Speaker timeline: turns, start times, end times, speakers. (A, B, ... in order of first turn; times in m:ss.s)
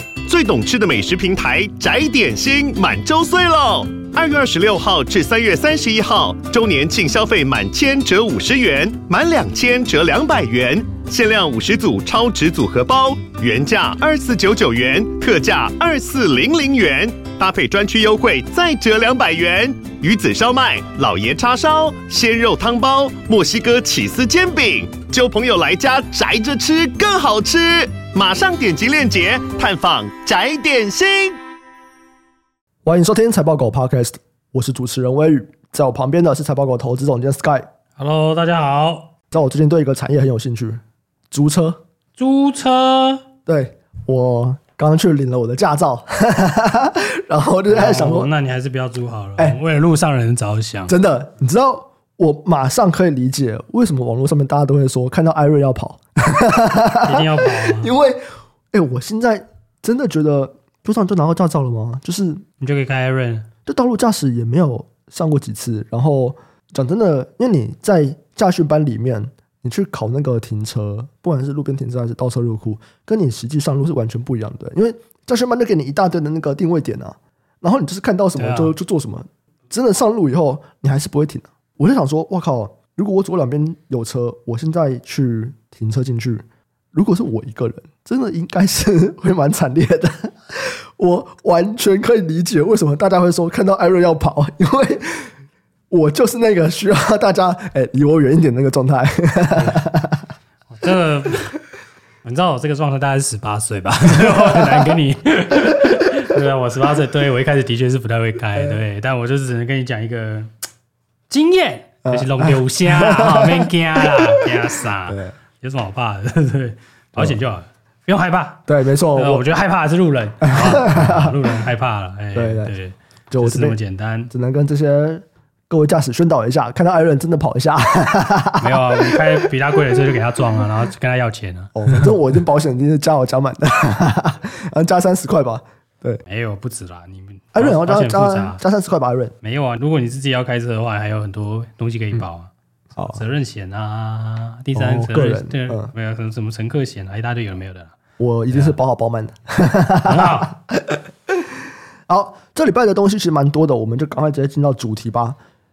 0:00.2-0:31.4 A
0:32.8-0:37.7 B
0:38.0-0:39.1 C
0:39.3-0:41.8 B
0:42.2-0:43.2 C
0:43.4-0:48.3 B
0:47.7-0:50.9 C
0:50.9-1:02.4 B
0:57.0-0:57.9 C
1:02.6-1:03.5 C
1:03.6-1:35.3 B
1:18.4-1:18.7 C
1:35.9-1:40.2 B
1:39.5-1:39.9 C
1:40.7-1:41.6 C
1:42.2-1:50.5 C
1:44.1-1:44.9 B
1:51.3-2:04.3 C
1:52.0-1:54.6 B
1:55.1-1:55.3 B
1:58.7-1:59.4 B
2:00.4-2:01.3 B
2:02.3-2:02.7 B
2:03.3-2:03.8 B
2:04.3-2:09.5 B
2:08.6-2:12.1 C
2:11.7-2:16.2 B
2:16.2-2:18.6 C
2:17.5-2:19.3 B
2:19.4-2:22.5 C
2:23.0-2:23.2 B
2:23.0-2:28.0 C
2:24.7-2:25.9 B
2:28.2-2:35.4 B
2:28.5-2:28.8 C
2:30.0-2:30.5 C